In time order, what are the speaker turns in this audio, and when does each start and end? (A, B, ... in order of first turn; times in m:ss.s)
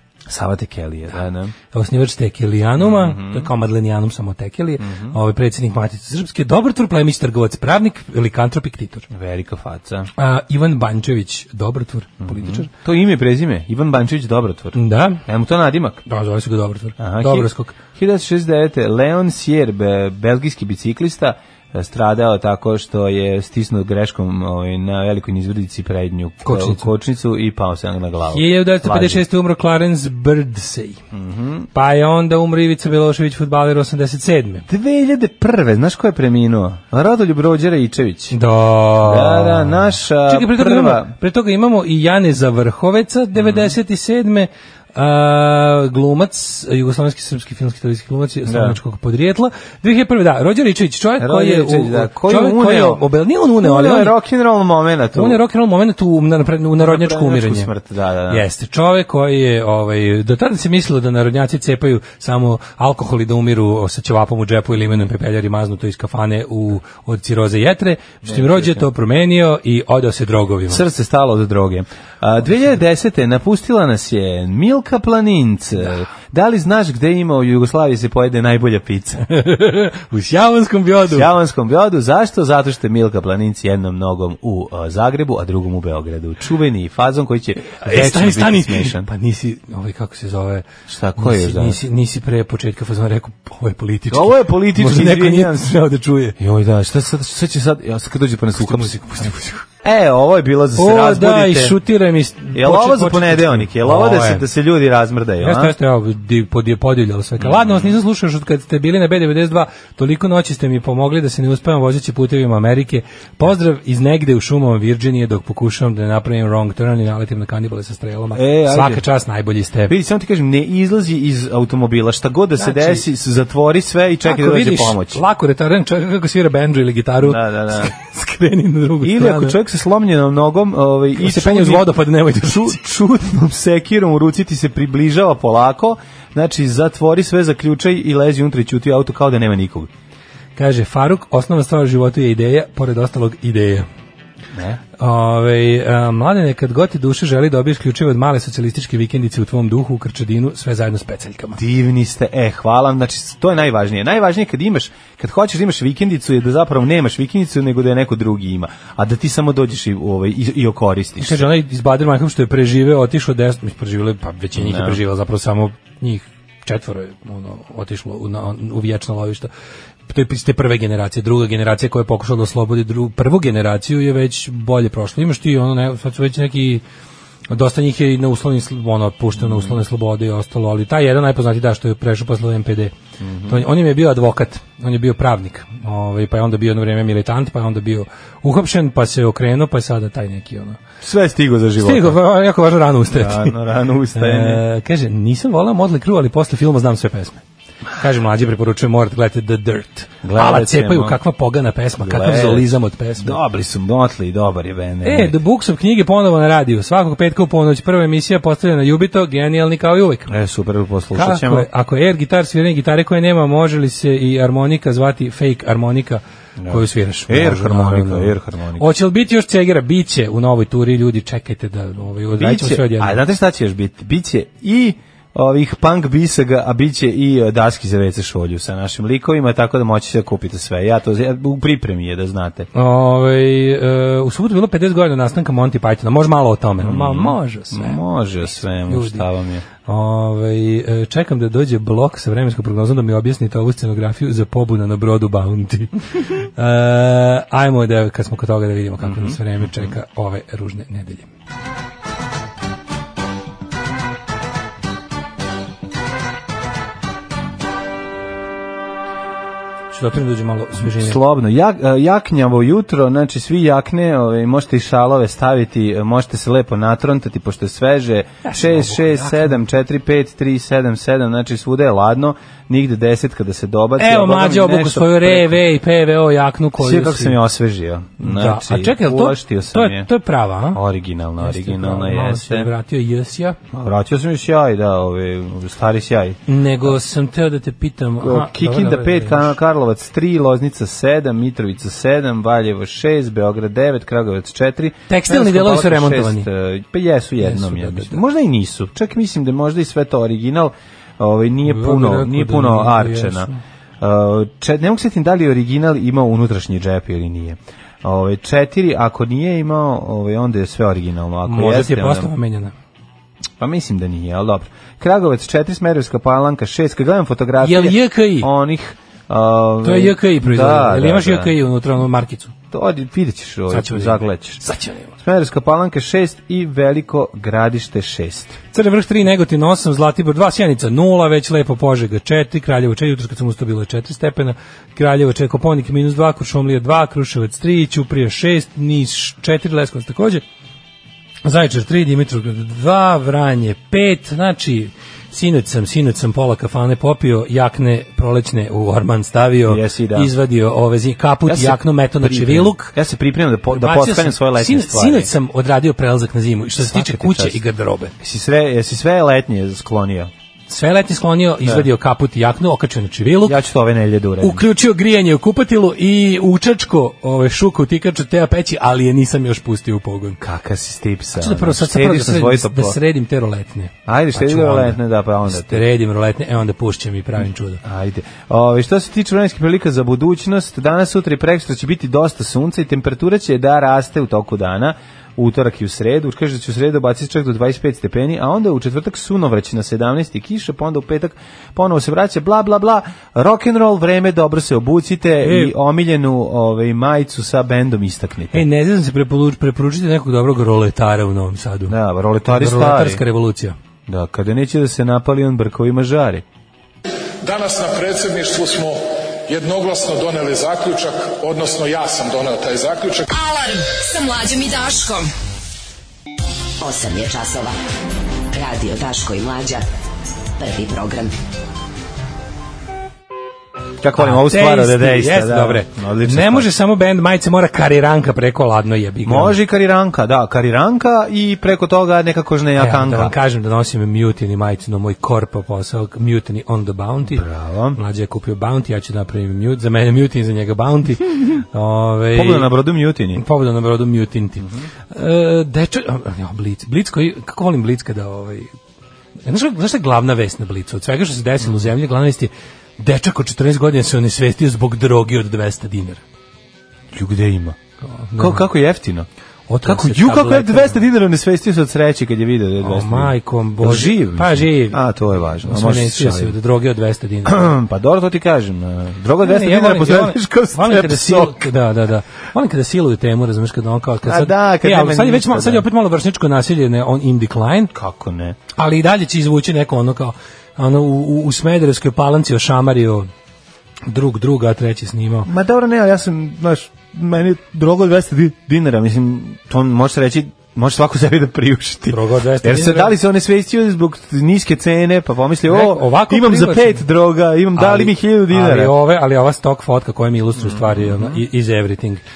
0:00.3-0:01.5 A
0:01.7-0:09.1 B
0:02.8-0:03.5 A
0:04.8-0:05.2 A
0:09.1-0:10.1 A
0:10.2-0:12.7 B
0:12.2-0:16.0 A
0:14.7-0:15.2 B
0:16.0-0:17.8 B
0:17.0-0:29.2 A
0:26.4-0:26.9 B
0:28.3-0:31.0 B
0:31.1-0:31.7 A
0:31.7-0:34.6 B
0:34.7-0:38.4 A
0:38.3-0:54.2 B
0:39.0-0:41.1 A
0:43.4-0:43.7 A
0:48.4-0:48.8 A
0:51.2-0:53.0 A
0:53.6-0:55.4 A
0:55.1-0:57.7 B
0:56.8-0:58.4 A
0:58.3-1:10.8 B
1:08.2-1:08.9 A
1:10.7-1:19.2 A
1:19.2-1:21.3 B
1:21.1-1:29.1 A
1:27.6-1:30.6 B
1:30.9-1:31.8 A
1:31.2-1:36.4 B
1:34.1-1:35.7 A
1:36.4-1:41.8 A
1:38.6-1:39.6 B
1:40.8-1:44.4 B
1:42.5-1:45.7 A
1:45.4-1:59.9 B
1:47.4-1:48.0 A
1:58.3-1:59.0 A
1:59.9-2:05.2 A
2:02.6-2:03.0 B
2:04.2-2:09.6 B
2:07.2-2:07.9 A
2:09.0-2:19.9 A
2:11.2-2:12.8 B
2:20.6-2:23.8 B
2:24.5-2:24.8 A
2:25.0-2:31.6 B
2:31.5-2:41.5 A
2:41.2-2:49.5 B
2:44.5-2:45.0 A
2:50.1-2:56.8 B
2:57.5-3:02.9 B
2:59.4-2:59.8 A
3:03.2-3:03.6 A
3:03.5-3:10.8 B
3:11.0-3:12.2 A
3:11.8-3:13.5 B
3:13.1-3:14.6 A
3:14.1-3:17.4 B
3:18.0-3:23.4 B
3:20.2-3:21.2 A
3:22.0-3:25.4 A
3:25.0-3:30.3 B
3:30.3-3:31.7 A
3:31.1-3:43.2 B
3:36.6-3:38.9 A
3:42.3-3:52.7 A
3:52.7-3:59.3 B
3:56.8-3:59.6 A
3:59.8-4:11.3 B
4:09.0-4:09.9 A
4:19.9-4:21.2 B
4:20.8-4:35.6 A
4:28.4-4:29.6 B
4:34.0-4:37.4 B
4:36.8-4:40.1 A
4:38.2-4:40.8 B
4:40.7-4:42.7 A
4:41.4-4:43.6 B
4:43.7-4:46.9 A
4:46.5-4:49.6 B
4:48.2-5:03.5 A
4:55.1-4:56.5 B
4:57.4-4:58.2 B
5:01.6-5:03.6 B
5:04.0-5:12.3 A
5:11.4-5:12.7 B
5:13.6-5:21.5 A
5:17.6-5:18.5 B
5:19.8-5:22.5 B
5:22.7-5:24.6 A
5:23.7-5:25.1 B
5:25.2-5:28.6 A
5:28.7-5:40.4 B
5:41.4-5:53.0 B
5:49.6-5:50.3 A
5:51.4-5:55.3 A
5:53.7-5:58.1 B
5:56.8-5:57.6 A
5:58.2-6:00.3 A
6:00.7-6:03.6 B
6:03.4-6:04.6 A
6:04.4-6:10.4 B
6:10.4-6:13.0 A
6:11.4-6:17.8 B
6:14.1-6:15.8 A
6:17.8-6:38.6 A
6:35.4-6:35.7 B
6:38.5-6:41.9 B
6:41.9-6:43.2 A
6:42.5-6:43.8 B
6:44.1-6:46.4 A
6:47.4-6:53.3 C
6:53.3-6:55.3 D
6:56.8-6:57.8 E
6:58.5-6:59.8 E
7:00.6-7:01.3 E
7:04.0-7:06.7 A
7:04.2-7:09.6 B
7:09.2-7:13.3 A
7:12.8-7:22.7 B
7:17.3-7:18.0 A
7:22.3-7:23.4 A
7:23.3-7:28.7 B
7:24.6-7:24.9 A
7:29.4-7:36.2 B
7:37.1-7:37.8 A
7:38.1-7:38.7 B
7:38.4-7:39.3 A
7:39.7-7:41.0 B
7:39.8-7:46.6 A
7:42.8-7:45.0 B
7:45.6-7:47.7 B
7:47.4-7:51.7 A
7:49.4-7:57.9 B
7:54.2-7:55.8 A
7:57.9-7:58.6 A
7:58.7-8:03.3 B
8:04.1-8:05.5 B
8:05.4-8:18.9 A
8:12.1-8:13.1 B
8:15.7-8:17.0 B
8:17.7-8:22.2 B
8:20.6-8:21.4 A